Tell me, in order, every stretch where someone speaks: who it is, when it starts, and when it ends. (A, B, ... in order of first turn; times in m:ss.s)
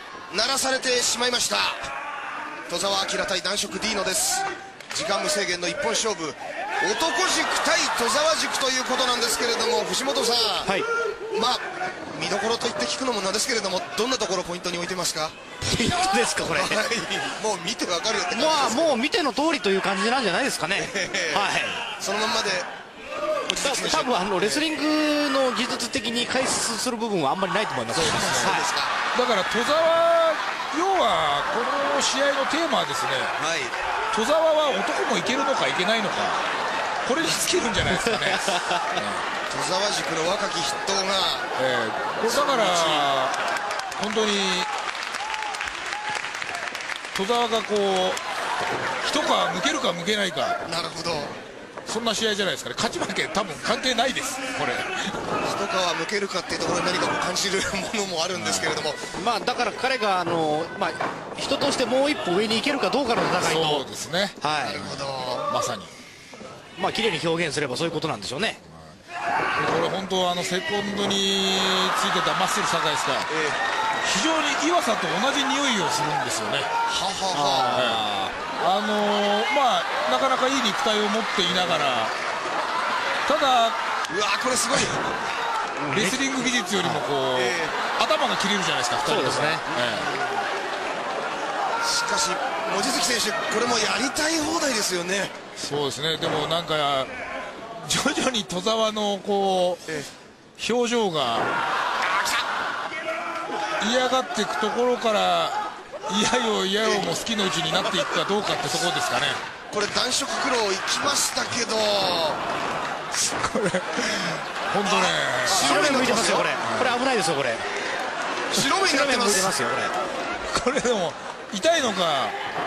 0:00.3-0:01.9 A
0:02.7-0:10.7 A
0:11.3-0:15.3 A
0:15.6-0:16.8 B
0:16.5-0:19.0 A
0:18.3-0:21.8 B
0:20.7-0:22.7 A
0:23.4-0:24.7 A
0:23.6-0:28.6 B
0:27.9-0:28.9 A
0:27.9-0:28.6 C
0:29.1-0:33.3 C
0:33.4-0:33.8 A
0:34.1-0:36.4 C
0:37.0-0:39.2 C
0:37.8-0:39.0 B
0:39.5-0:41.5 A
0:41.6-0:43.4 C
0:42.2-0:43.1 A
0:44.0-0:44.7 C
0:47.1-0:48.2 C
0:49.0-0:50.6 C
0:50.6-0:51.3 A
0:51.9-0:55.2 C
0:55.4-0:59.0 A
0:58.3-0:58.8 C
0:59.1-1:03.8 B
1:03.4-1:04.4 C
1:04.4-1:04.8 B
1:04.6-1:05.4 A
1:05.5-1:05.9 C
1:06.8-1:08.6 B
1:08.7-1:08.9 C
1:09.6-1:13.3 C
1:13.3-1:13.6 A
1:14.0-1:16.7 C
1:16.9-1:17.8 A
1:17.3-1:18.3 B
1:17.7-1:18.0 C
1:18.6-1:22.1 C
1:23.2-1:23.8 C
1:24.1-1:25.1 A
1:25.8-1:27.0 B
1:25.9-1:30.1 C
1:27.3-1:27.7 A
1:29.0-1:29.6 B
1:29.7-1:30.4 A
1:31.8-1:35.3 A
1:35.6-1:37.1 C
1:37.8-1:39.9 C
1:40.6-1:41.5 C
1:43.8-1:49.4 C
1:46.8-1:47.1 A
1:49.7-1:52.4 A
1:53.1-1:57.0 C
1:54.8-1:56.5 A
1:55.5-1:57.6 B
1:58.5-1:59.5 A
1:58.6-1:59.9 B
2:00.5-2:02.4 C